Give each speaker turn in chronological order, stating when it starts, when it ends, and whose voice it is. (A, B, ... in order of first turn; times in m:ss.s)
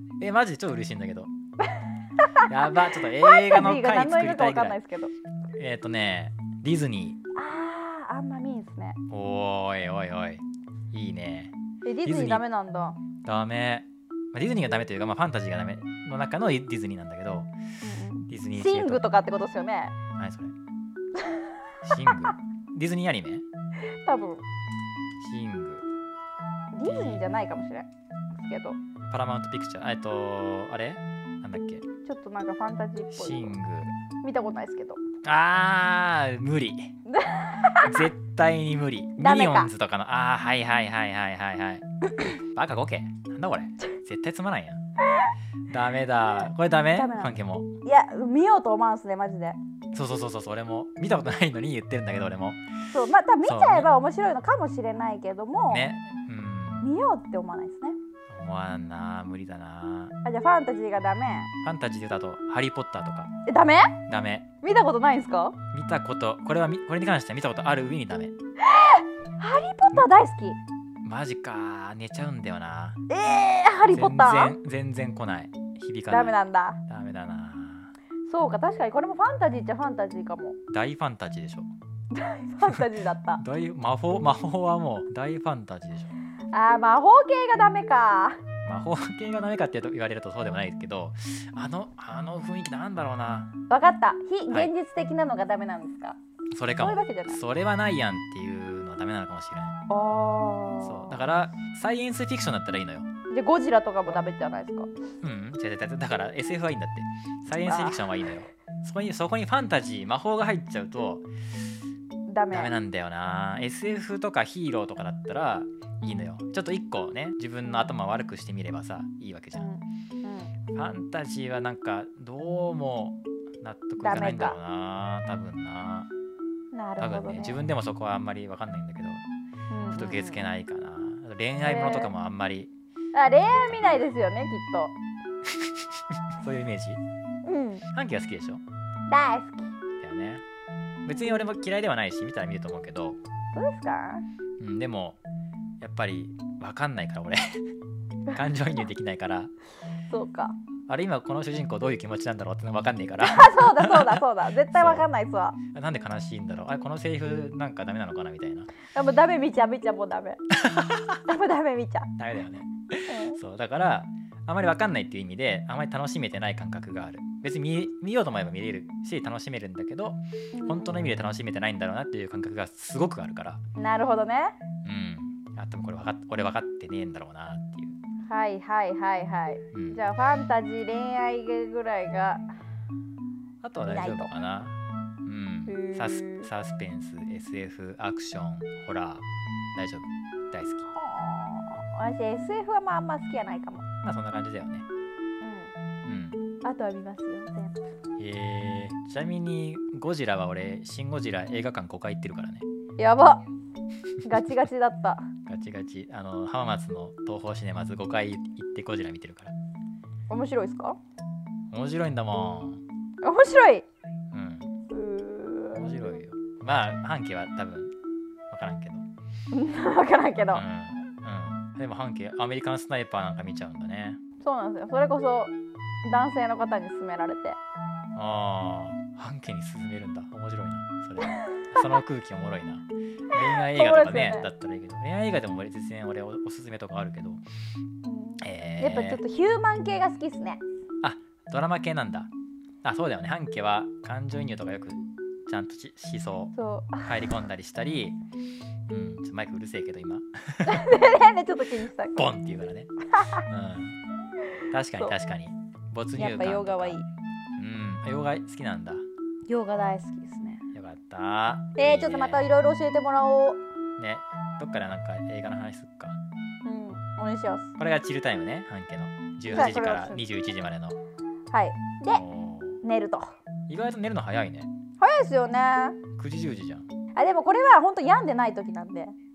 0:00.2-0:01.3 A
0:01.8-0:05.1 B
0:02.4-0:04.8 A
0:05.5-0:07.2 A
0:07.4-0:09.0 B
0:09.1-0:11.5 A
0:11.8-0:13.0 B
0:12.0-0:12.4 A
0:13.2-0:17.5 A
0:17.8-0:19.9 B
0:18.3-0:19.0 A
0:20.2-0:20.6 A
0:21.2-0:21.4 B
0:21.8-0:23.4 A
0:24.0-0:24.4 B
0:25.2-0:25.9 A
0:26.7-0:28.8 B
0:26.8-0:27.2 A
0:29.1-0:31.9 A
0:32.0-0:33.5 B
0:33.1-0:33.9 A
0:34.2-0:35.0 B
0:35.2-0:36.9 A
0:37.1-0:38.1 B
0:37.8-0:44.8 A
0:39.2-0:39.7 B
0:45.7-0:47.7 A
0:46.9-0:49.6 B
0:49.9-0:52.6 A
0:52.9-0:55.8 B
0:53.4-0:53.9 A
0:55.7-0:56.9 A
0:56.8-0:58.0 B
0:58.3-1:00.1 A
1:00.2-1:01.5 B
1:01.6-1:03.3 A
1:03.5-1:04.0 B
1:04.1-1:04.5 A
1:04.6-1:05.6 B
1:05.7-1:08.3 A
1:08.6-1:10.6 B
1:11.0-1:13.0 A
1:13.1-1:14.6 B
1:13.9-1:16.4 A
1:16.1-1:16.8 B
1:16.9-1:17.9 A
1:18.3-1:20.6 B
1:20.7-1:21.7 A
1:22.1-1:23.4 B
1:23.4-1:26.1 A
1:26.5-1:28.4 B
1:28.6-1:33.6 A
1:33.7-1:36.2 B
1:36.5-1:39.8 A
1:36.8-1:37.4 B
1:39.9-1:41.2 B
1:40.8-1:43.1 A
1:43.3-1:44.9 B
1:45.2-1:51.3 A
1:47.5-1:48.2 B
1:52.3-1:52.7 B
1:52.5-1:59.7 A
1:56.0-1:56.3 B
1:59.6-2:00.5 B
2:00.7-2:06.1 A
2:04.0-2:04.6 B
2:06.7-2:07.6 B
2:07.0-2:09.2 A
2:09.7-2:10.4 B
2:09.9-2:12.7 A
2:11.6-2:12.1 B
2:13.1-2:14.9 B
2:13.4-2:14.1 A
2:15.4-2:17.0 A
2:17.4-2:17.8 B
2:17.9-2:18.6 A
2:19.1-2:19.8 B
2:20.0-2:20.4 A
2:21.0-2:23.2 A
2:21.1-2:21.4 B
2:23.5-2:24.2 B
2:24.6-2:25.2 A
2:25.8-2:27.6 A
2:28.3-2:29.5 A
2:30.1-2:30.6 B
2:30.9-2:35.1 A
2:33.2-2:35.6 B
2:35.7-2:38.7 A
2:38.9-2:40.4 B
2:40.5-2:41.2 A
2:41.2-2:42.1 B
2:42.2-2:53.6 A
2:43.1-2:43.4 B
2:50.5-2:51.1 B
2:53.8-2:54.6 B
2:54.8-2:58.0 A
2:58.3-3:02.5 B
2:59.7-3:00.0 A
3:03.6-3:10.8 A
3:03.8-3:04.3 B
3:05.7-3:06.5 B
3:10.9-3:13.8 B
3:14.0-3:14.9 A
3:15.4-3:15.7 B
3:16.0-3:16.4 A
3:16.6-3:17.8 B
3:18.2-3:22.6 A
3:23.0-3:23.4 B
3:24.2-3:25.3 B
3:25.4-3:29.6 A
3:30.3-3:31.0 B
3:31.7-3:32.8 A
3:33.2-3:33.8 B
3:34.3-3:34.7 A
3:34.9-3:36.2 B
3:35.8-3:37.9 A
3:38.5-3:39.1 A
3:39.5-3:40.6 B
3:40.5-3:44.2 A
3:44.4-3:47.6 B
3:48.1-3:57.4 A
3:51.2-3:51.8 B
3:53.4-3:54.5 B
3:58.0-4:00.6 B
3:58.4-3:59.2 A
4:01.0-4:02.3 A
4:02.8-4:08.2 A
4:06.6-4:07.1 B
4:08.9-4:10.9 A
4:10.6-4:12.4 B
4:12.1-4:14.0 A
4:13.1-4:13.4 B
4:14.7-4:17.0 A
4:16.2-4:17.1 B
4:17.6-4:19.0 A
4:19.5-4:20.6 B
4:20.7-4:22.6 A
4:21.8-4:23.6 B
4:24.0-4:26.2 A
4:26.6-4:27.7 B
4:27.8-4:31.0 A
4:29.5-4:30.2 B
4:31.5-4:32.2 B
4:32.1-4:32.8 A
4:32.8-4:33.3 B
4:33.7-4:34.7 A
4:35.0-4:36.0 B
4:36.2-4:36.9 A
4:37.1-4:39.1 B